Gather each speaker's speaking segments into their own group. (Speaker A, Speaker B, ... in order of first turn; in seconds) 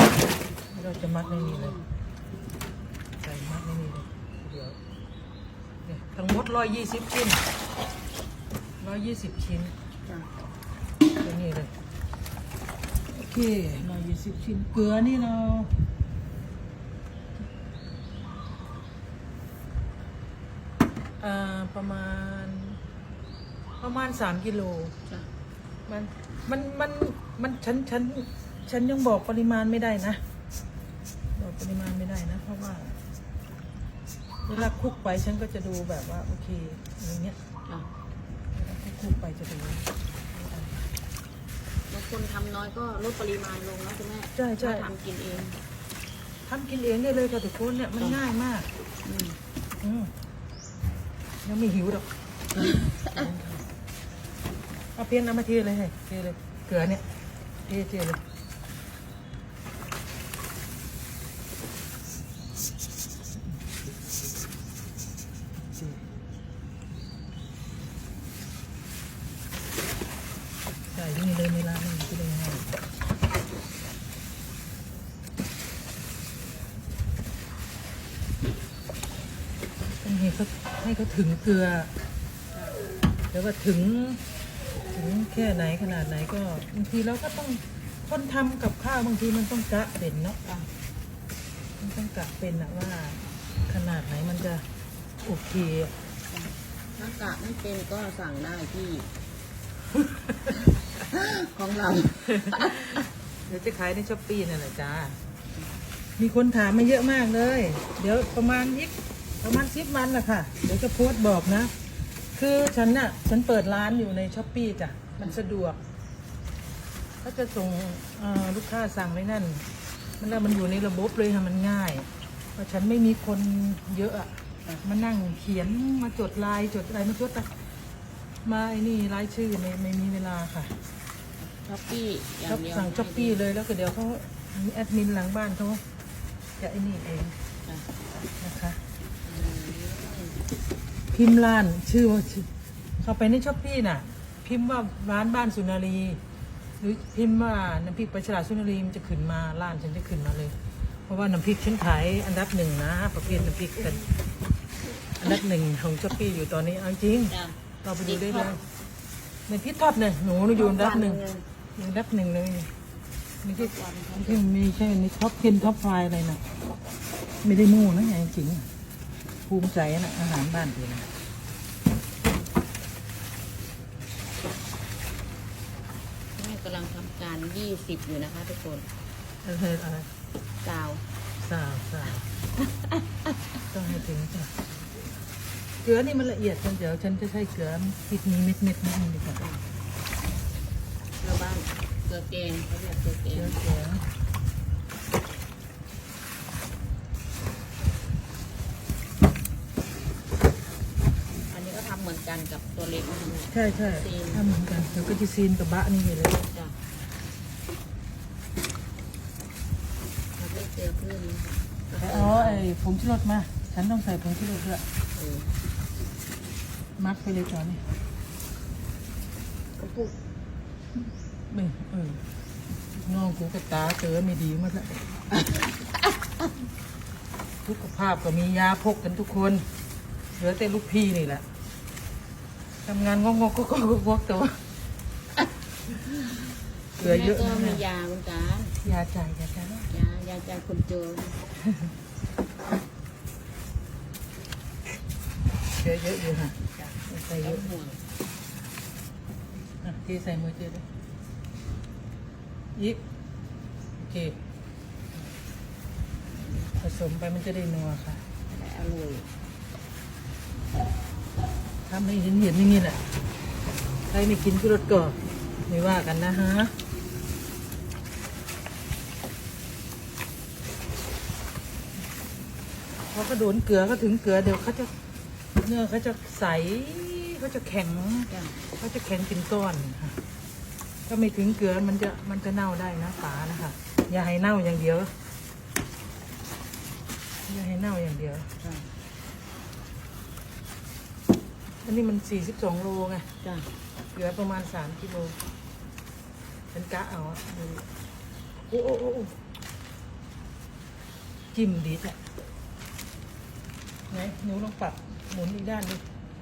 Speaker A: 0.7-1.8, 3.2-4.8, 5.9-7.4, 8.8-9.7, 11.2-11.7, 13.1-15.7, 21.2-22.8, 23.8-25.0, 25.9-30.2, 31.4-33.0, 34.5-37.4, 38.5-40.7, 44.4-44.9, 46.5-48.7, 49.8-50.1, 51.5-52.1, 53.1-53.6, 55.0-57.1, 57.6-58.2, 70.9-72.7, 80.0-81.9, 83.3-84.2, 84.9-90.4, 91.8-94.7, 95.2-96.0, 102.3-105.2, 106.2-115.8, 117.2-119.7, 120.2-127.6, 128.4-130.8, 132.5-135.8, 136.6-137.3, 138.4-138.8, 141.1-146.2, 146.8-154.0, 155.2-158.6, 159.5-161.2, 161.8-162.7, 163.4-166.4, 167.4-168.7, 169.4-171.1, 179.4-180.1, 181.4-182.3, 183.7-184.6, 185.8-189.4, 193.3-194.0, 203.5-206.4, 212.0-214.9, 217.0-217.8, 221.5-222.2, 222.9-225.5, 227.7-229.7, 230.4-231.5, 232.8-234.6, 237.0-237.8, 238.8-239.9, 245.8-247.7, 249.8-250.8, 252.8-253.0, 254.0-254.4, 256.8-258.2, 261.9-263.1, 264.1-266.7, 273.1-274.9, 275.6-280.2, 281.1-285.1, 287.5-288.5, 291.8-293.3, 294.1-295.4, 296.7-297.9, 298.7-299.4, 301.5-302.2, 304.1-306.0
Speaker B: 1.3-1.9, 10.1-10.3, 41.9-45.6, 49.0-49.4, 52.6-53.1, 82.5-82.8, 90.4-90.7, 96.3-99.1, 100.5-103.0, 131.4-133.4, 139.2-140.4, 153.2-154.2, 157.3-158.7, 160.5-161.4, 163.6-164.5, 176.4-178.9, 180.6-181.0, 182.6-183.1, 189.4-189.6, 191.2-193.6, 201.5-204.5, 206.4-206.8, 210.4-212.7, 215.1-215.5, 219.8-220.2, 236.0-238.8, 239.9-241.4, 246.8-248.0, 256.3-256.7, 258.5-259.3, 278.3-278.6, 288.6-288.9, 293.4-293.7